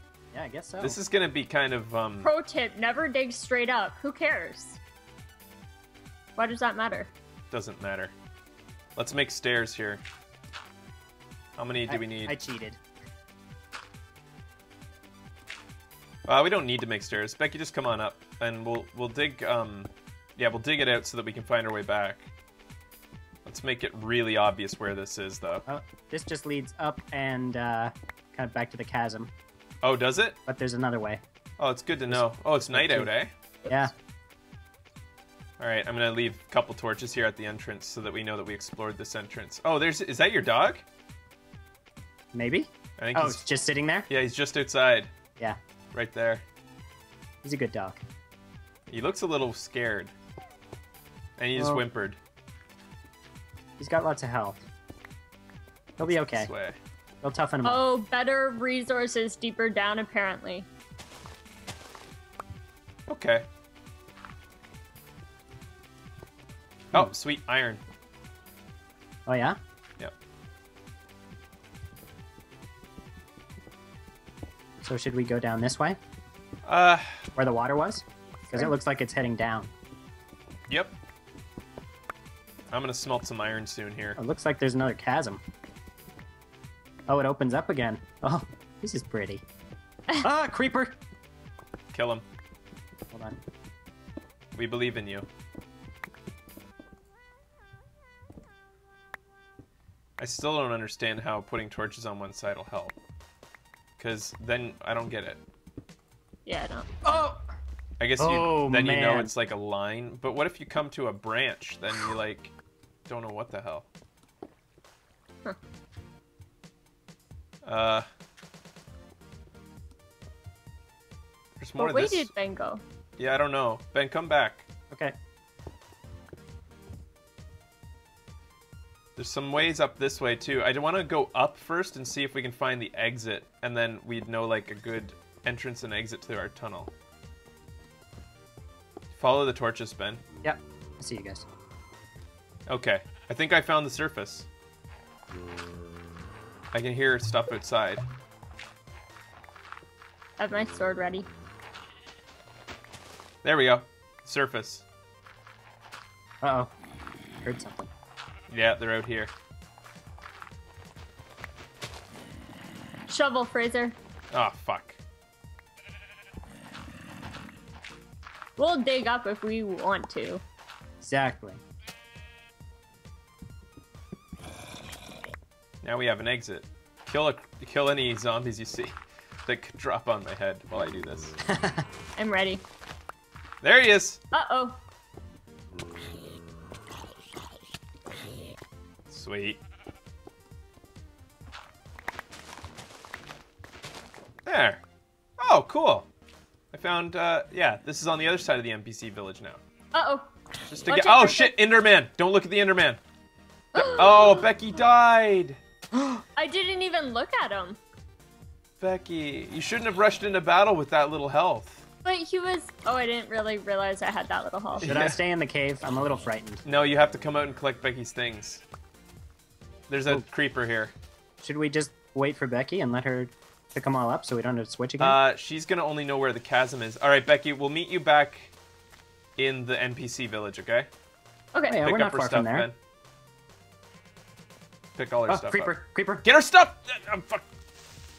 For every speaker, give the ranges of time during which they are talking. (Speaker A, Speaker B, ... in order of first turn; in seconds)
Speaker A: 0.3-1.0, 11.9-12.8, 25.7-29.3, 30.5-31.2, 32.1-33.1, 33.6-33.9, 42.3-44.1, 47.4-48.0, 51.5-51.8, 53.8-54.6, 56.0-56.5, 57.2-57.8, 69.2-69.6, 74.8-76.0, 77.3-79.7, 84.2-85.4, 87.1-89.4, 90.2-91.0, 93.1-93.4, 107.0-107.4, 108.2-109.3, 140.4-141.4, 156.4-156.7, 157.4-157.9, 171.0-171.6, 181.5-181.8, 205.9-206.2, 214.8-216.6, 221.4-225.2, 231.7-232.7, 235.3-236.2
Speaker B: 0.8-2.3, 7.5-8.1, 9.0-10.0, 11.6-12.3, 16.3-22.3, 23.4-25.6, 29.8-30.4, 31.6-33.3, 35.6-40.8, 43.0-43.4, 44.1-45.1, 45.9-46.4, 48.9-50.1, 51.4-52.2, 56.0-56.8, 63.1-63.5, 66.9-67.8, 76.6-77.2, 80.7-80.9, 82.7-84.2, 91.9-92.2, 94.5-95.3, 100.2-102.9, 104.0-105.4, 108.0-112.5, 113.1-113.9, 117.6-118.1, 121.6-122.3, 123.2-124.6, 129.2-136.9, 139.1-140.2, 142.7-144.5, 146.7-148.0, 153.4-154.8, 158.5-159.3, 164.3-165.0, 175.8-178.9, 179.4-181.3, 183.6-184.2, 189.1-189.6, 194.4-194.8, 195.4-196.1, 196.7-199.6, 200.7-203.0, 203.7-205.6, 208.8-211.8, 214.8-215.2, 216.6-218.6, 219.9-220.9, 225.0-228.5, 229.4-230.9, 231.8-232.8, 234.9-237.4
Speaker C: 2.2-4.8, 6.4-7.1, 57.6-60.7, 106.5-106.9, 121.8-122.8, 150.4-151.3, 163.1-163.9, 168.6-170.4, 182.2-182.6, 184.3-184.8, 199.9-200.3, 200.8-201.5, 203.7-204.4, 206.3-207.8, 212.0-214.9, 231.5-231.8